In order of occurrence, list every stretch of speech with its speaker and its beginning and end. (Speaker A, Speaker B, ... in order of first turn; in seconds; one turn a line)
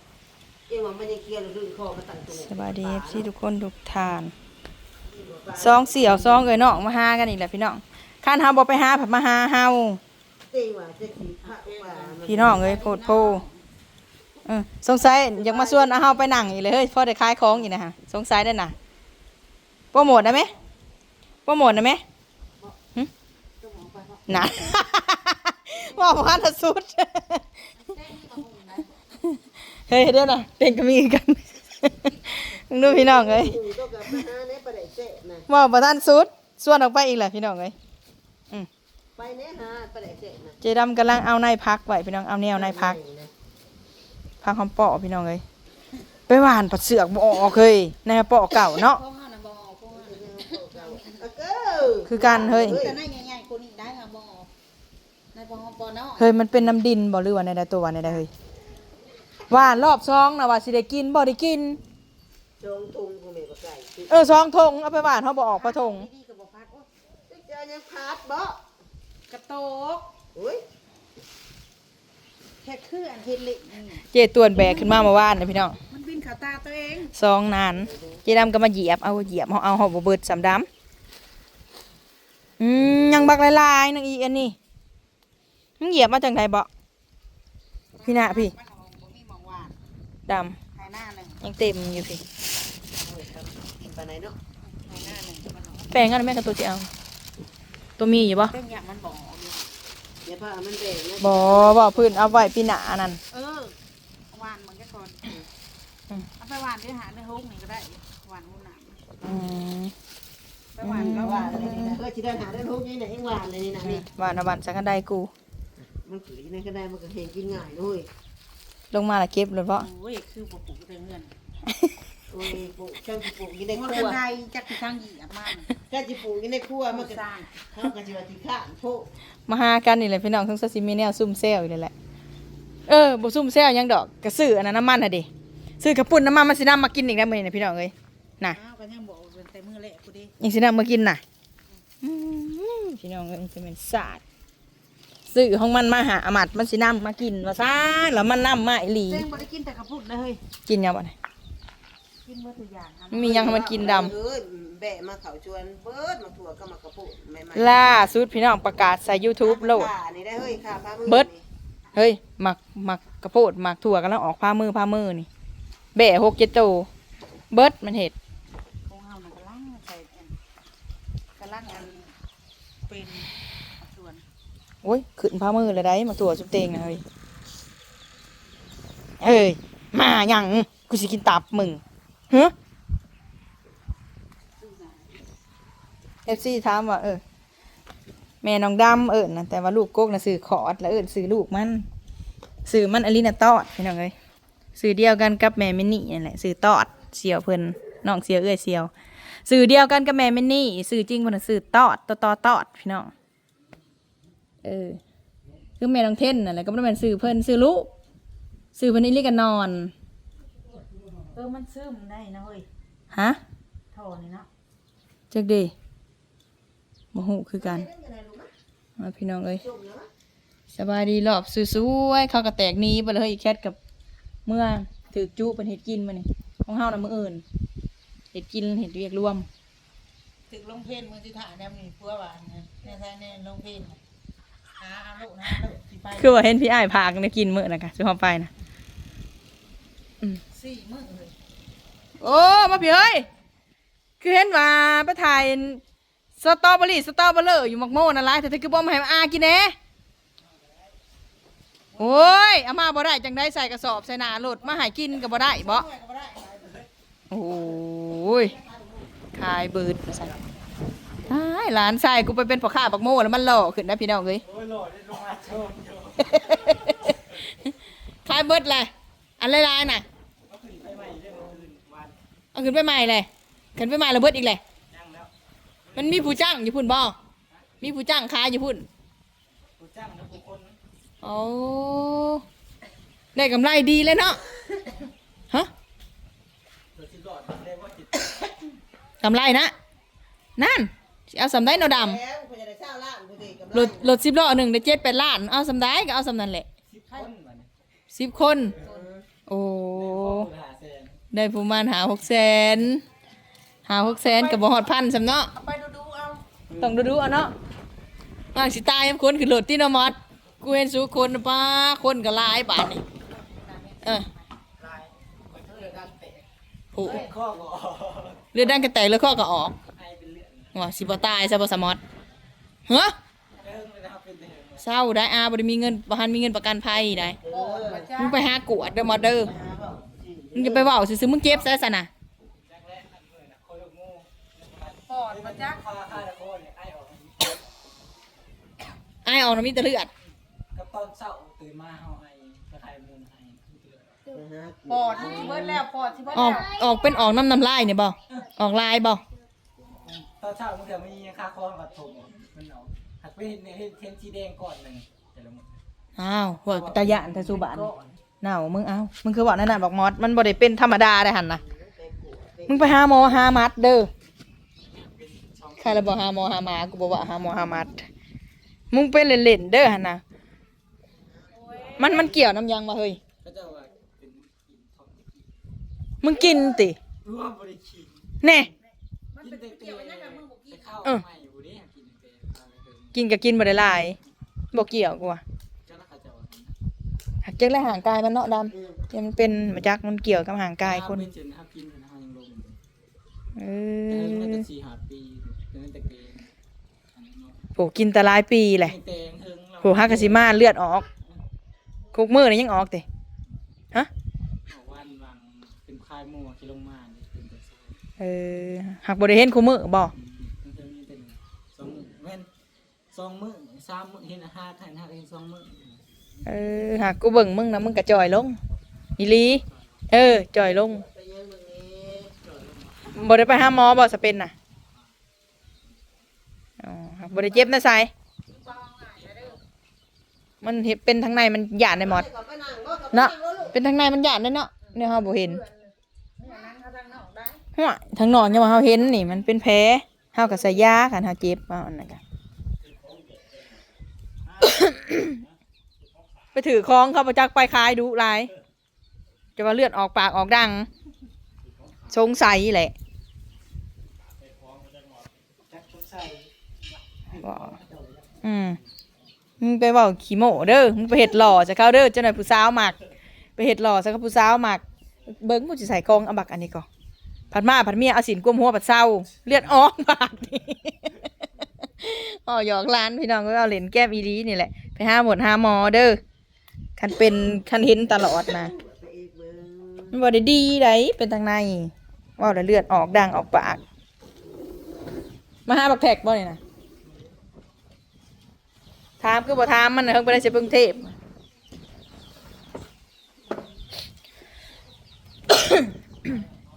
Speaker A: 0.7-3.3
Speaker B: 2.3-4.3
Speaker A: 5.0-6.6
Speaker B: 5.5-10.0
Speaker A: 10.5-12.7
Speaker C: 11.4-13.6
Speaker B: 12.2-13.4
Speaker B: 14.4-18.7
Speaker A: 15.3-16.2
Speaker B: 19.9-20.5
Speaker C: 19.9-20.6
Speaker B: 21.4-22.0
Speaker C: 23.6-24.8
Speaker B: 24.3-27.6
Speaker C: 25.8-26.3
Speaker C: 27.8-28.9
Speaker B: 29.2-34.2
Speaker A: 32.8-35.5
Speaker B: 35.5-37.7
Speaker A: 39.1-40.6
Speaker B: 40.6-43.0
Speaker A: 42.5-43.3
Speaker B: 44.4-45.4
Speaker B: 46.3-49.0
Speaker C: 48.6-51.2
Speaker A: 49.9-53.0
Speaker B: 52.1-52.8
Speaker C: 52.7-54.5
Speaker C: 55.3-56.4
Speaker B: 56.2-58.3
Speaker B: 59.5-61.8
Speaker A: 62.6-64.2
Speaker B: 64.1-66.1
Speaker C: 65.5-66.9
Speaker A: 67.3-68.6
Speaker C: 69.3-70.1
Speaker A: 70.3-70.6
Speaker C: 72.6-75.3
Speaker B: 74.0-75.8
Speaker C: 75.9-77.1
Speaker B: 77.1-80.7
Speaker A: 77.7-78.3
Speaker B: 82.6-84.5
Speaker B: 85.8-86.7
Speaker C: 88.0-89.8
Speaker B: 88.0-88.5
Speaker B: 90.3-90.6
Speaker C: 90.7-91.4
Speaker B: 91.4-92.2
Speaker A: 93.0-94.4
Speaker C: 94.6-96.0
Speaker B: 95.9-96.9
Speaker B: 98.0-98.5
Speaker C: 98.5-99.8
Speaker A: 100.2-102.1
Speaker B: 101.2-103.2
Speaker C: 103.3-103.8
Speaker C: 104.3-105.4
Speaker C: 106.4-109.0
Speaker B: 109.2-109.9
Speaker C: 110.7-111.8
Speaker B: 110.8-112.0
Speaker A: 111.0-114.0
Speaker B: 113.8-115.3
Speaker A: 116.0-118.1
Speaker B: 118.9-119.9
Speaker C: 119.8-121.3
Speaker A: 122.3-124.2
Speaker C: 123.7-125.7
Speaker A: 125.9-129.1
Speaker C: 126.9-127.6
Speaker B: 129.5-131.9
Speaker B: 132.9-135.3
Speaker B: 135.8-138.6
Speaker C: 138.4-140.3
Speaker B: 140.4-141.2
Speaker B: 142.0-144.2
Speaker B: 145.3-149.2
Speaker C: 149.1-150.4
Speaker B: 150.7-151.1
Speaker C: 152.2-153.3
Speaker B: 153.1-154.1
Speaker A: 153.2-157.8
Speaker B: 157.5-159.9
Speaker A: 159.4-161.4
Speaker B: 161.9-165.3
Speaker B: 165.9-166.9
Speaker B: 167.5-168.1
Speaker C: 168.9-170.3
Speaker C: 171.3-172.1
Speaker C: 172.9-174.2
Speaker B: 174.8-177.0
Speaker B: 179.2-182.5
Speaker C: 184.6-185.2
Speaker B: 186.2-187.2
Speaker B: 188.4-191.8
Speaker B: 192.6-194.1
Speaker B: 194.8-198.9
Speaker B: 199.4-203.1
Speaker B: 204.6-205.0
Speaker B: 205.8-207.9
Speaker B: 208.7-209.9
Speaker C: 211.3-212.7
Speaker B: 213.1-213.4
Speaker C: 213.9-214.5
Speaker B: 215.3-215.7
Speaker B: 217.1-217.9
Speaker A: 217.6-218.5
Speaker B: 219.0-219.6
Speaker A: 219.6-220.1
Speaker B: 220.7-223.8
Speaker B: 224.4-227.4
Speaker B: 228.3-229.5
Speaker C: 230.5-234.0
Speaker C: 234.8-236.4
Speaker B: 236.1-238.5
Speaker C: 240.5-241.3
Speaker B: 242.2-243.2
Speaker B: 244.2-245.8
Speaker B: 246.4-249.7
Speaker C: 251.9-252.3
Speaker B: 252.0-255.9
Speaker C: 255.2-256.8
Speaker B: 257.3-258.5
Speaker B: 259.3-260.3
Speaker B: 261.3-264.4
Speaker D: 264.4-267.3
Speaker B: 266.2-267.7
Speaker B: 268.2-270.0
Speaker D: 270.5-272.2
Speaker B: 272.5-274.6
Speaker D: 274.9-275.3
Speaker D: 275.9-276.2
Speaker B: 275.9-277.2
Speaker D: 277.5-277.7
Speaker B: 277.8-278.8
Speaker D: 279.8-280.8
Speaker B: 281.2-282.4
Speaker B: 283.3-284.4
Speaker D: 286.9-288.6
Speaker B: 289.2-289.7
Speaker B: 290.6-292.2
Speaker A: 291.6-294.2
Speaker B: 293.7-296.7
Speaker D: 296.9-297.7
Speaker B: 298.1-298.8
Speaker D: 298.5-298.9
Speaker C: 298.8-299.1
Speaker A: 298.8-299.2
Speaker B: 299.5-300.5
Speaker D: 299.9-301.2
Speaker B: 301.3-303.0
Speaker B: 303.9-305.5
Speaker C: 304.1-304.7
Speaker C: 305.5-306.6
Speaker B: 306.8-307.5
Speaker B: 308.5-313.0
Speaker C: 313.2-315.0
Speaker B: 314.0-314.3
Speaker D: 315.0-316.4
Speaker B: 316.9-317.3
Speaker C: 317.0-317.4
Speaker D: 317.0-318.9
Speaker B: 318.5-319.8
Speaker D: 319.9-320.8
Speaker B: 320.7-322.0
Speaker B: 322.9-323.1
Speaker D: 323.6-324.8
Speaker B: 324.8-327.4
Speaker A: 327.4-328.1
Speaker C: 327.4-328.4
Speaker B: 328.2-329.5
Speaker A: 329.3-330.9
Speaker B: 330.5-332.1
Speaker D: 331.4-331.8
Speaker D: 332.4-337.6
Speaker C: 335.1-335.8
Speaker B: 339.2-340.1
Speaker D: 340.7-344.2
Speaker A: 344.3-345.8
Speaker C: 344.9-346.8
Speaker B: 346.3-349.2
Speaker D: 350.0-355.8
Speaker B: 356.1-357.9
Speaker D: 356.7-357.8
Speaker C: 357.6-358.2
Speaker B: 358.4-361.6
Speaker A: 361.5-362.9
Speaker B: 362.7-364.1
Speaker D: 364.8-366.2
Speaker B: 365.8-368.1
Speaker B: 368.9-370.2
Speaker A: 371.5-371.8
Speaker C: 371.5-372.4
Speaker D: 371.8-372.4
Speaker B: 372.0-373.2
Speaker D: 373.4-375.5
Speaker B: 376.2-377.0
Speaker D: 377.2-378.3
Speaker B: 378.4-378.7
Speaker C: 379.3-380.9
Speaker D: 379.4-383.2
Speaker B: 383.1-384.2
Speaker B: 384.7-385.4
Speaker D: 385.9-386.7
Speaker B: 387.4-391.3
Speaker A: 388.7-389.0
Speaker D: 390.8-392.8
Speaker B: 393.5-394.6
Speaker D: 394.1-396.5
Speaker D: 397.1-397.7
Speaker B: 397.8-398.9
Speaker D: 398.8-400.6
Speaker B: 399.8-401.1
Speaker B: 402.1-403.0
Speaker D: 404.7-408.0
Speaker B: 408.2-410.1
Speaker D: 410.1-412.5
Speaker D: 413.1-416.0
Speaker B: 416.4-418.6
Speaker B: 419.2-421.0
Speaker A: 420.8-422.3
Speaker D: 422.4-423.2
Speaker B: 423.1-424.5
Speaker B: 426.8-428.1
Speaker C: 428.5-429.6
Speaker D: 429.3-429.6
Speaker B: 430.6-432.2
Speaker A: 432.0-433.8
Speaker B: 433.1-435.6
Speaker C: 434.8-437.6
Speaker B: 437.7-442.2
Speaker B: 444.6-445.4
Speaker B: 446.5-448.5
Speaker B: 449.6-450.9
Speaker B: 452.1-452.9
Speaker D: 455.7-456.5
Speaker D: 457.3-458.4
Speaker B: 457.4-457.8
Speaker B: 458.4-458.8
Speaker B: 459.6-463.0
Speaker B: 463.6-466.9
Speaker B: 467.5-476.2
Speaker B: 477.0-478.7
Speaker A: 478.3-480.2
Speaker B: 480.1-483.8
Speaker B: 485.7-486.6
Speaker B: 489.2-491.1
Speaker B: 495.5-495.9